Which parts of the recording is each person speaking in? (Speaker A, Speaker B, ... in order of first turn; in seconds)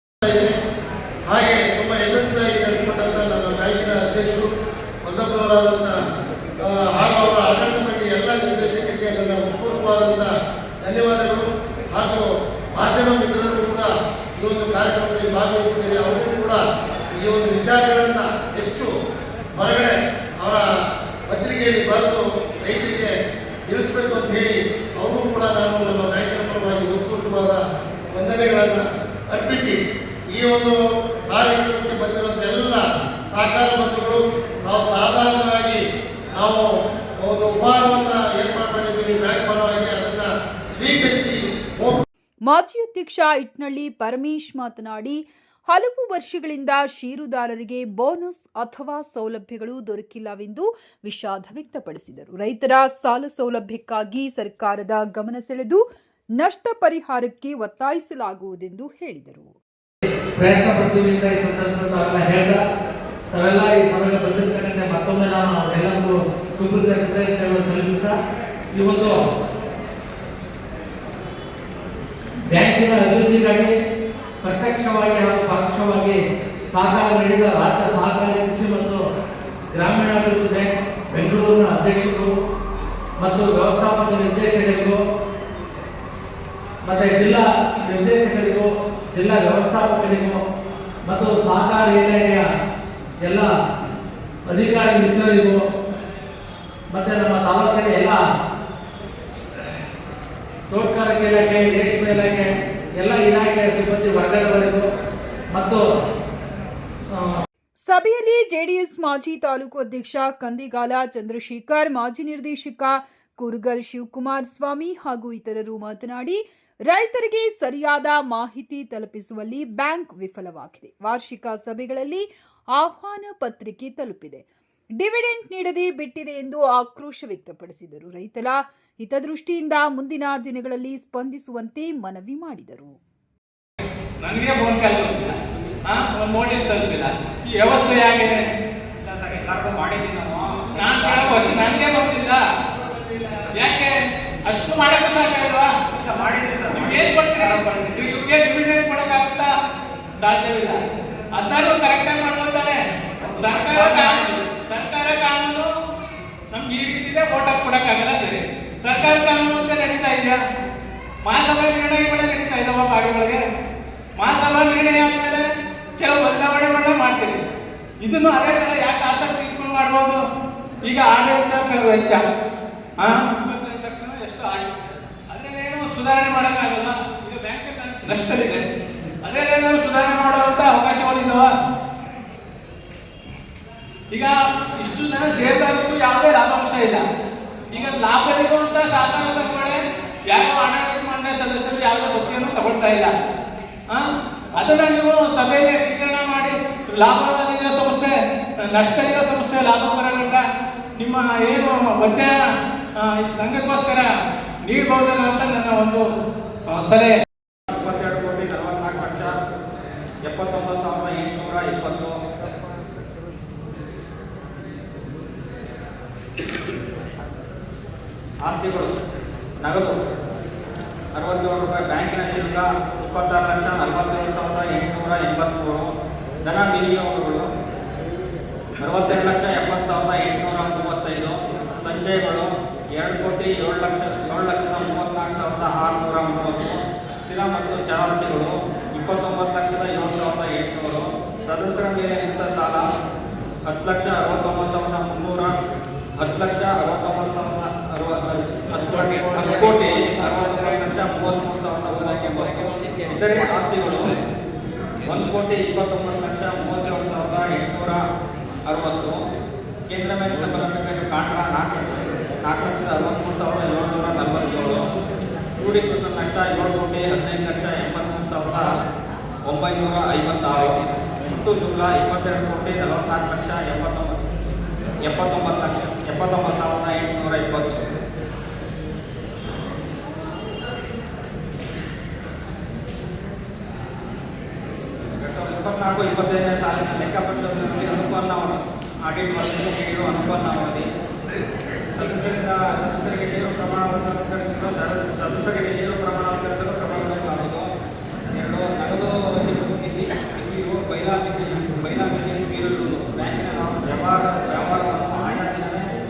Speaker A: 0.2-0.5, 1.3-4.5, 5.0-5.9, 6.6-10.3, 10.8-13.9, 14.4-16.6, 17.2-18.9, 19.6-20.6, 21.3-23.1, 23.7-27.6, 28.1-29.8, 30.3-35.8, 36.4-36.7, 37.2-42.0
Speaker B: 42.5-55.8, 56.4-59.5, 107.9-124.5, 125.0-133.0
Speaker C: 60.4-62.6, 63.3-68.2, 68.7-69.2, 72.5-73.7, 74.4-76.2, 76.7-79.0, 79.7-82.3, 83.2-85.0, 86.8-90.4, 91.0-92.5, 93.2-93.5, 94.5-95.6, 96.9-98.2, 100.7-104.8, 105.5-105.8, 107.1-107.4
Speaker D: 134.2-138.4, 140.8-142.4, 143.6-144.0, 144.5-145.7, 146.7-149.5, 150.2-150.8, 151.3-155.7, 156.5-160.4, 161.2-163.4, 164.2-165.4, 166.0-167.4, 168.0-170.2, 170.8-172.2, 173.0-178.7, 179.2-181.5, 184.1-187.0, 187.7-189.8, 190.3-193.1, 194.6-198.1, 198.7-200.4, 201.0-202.3, 203.0-204.1, 204.7-206.1, 206.7-207.2
Speaker E: 139.0-141.6, 146.0-147.6, 153.2-154.3, 207.7-209.3, 210.3-212.1, 218.5-218.9, 219.6-219.9, 221.2-225.9, 226.4-227.5, 228.8-242.9, 243.7-245.5, 246.2-254.1, 255.1-258.0, 258.7-259.2, 259.9-264.8, 265.6-268.7, 269.5-274.2, 275.1-277.9, 285.2-290.9, 292.0-297.7, 298.4-305.9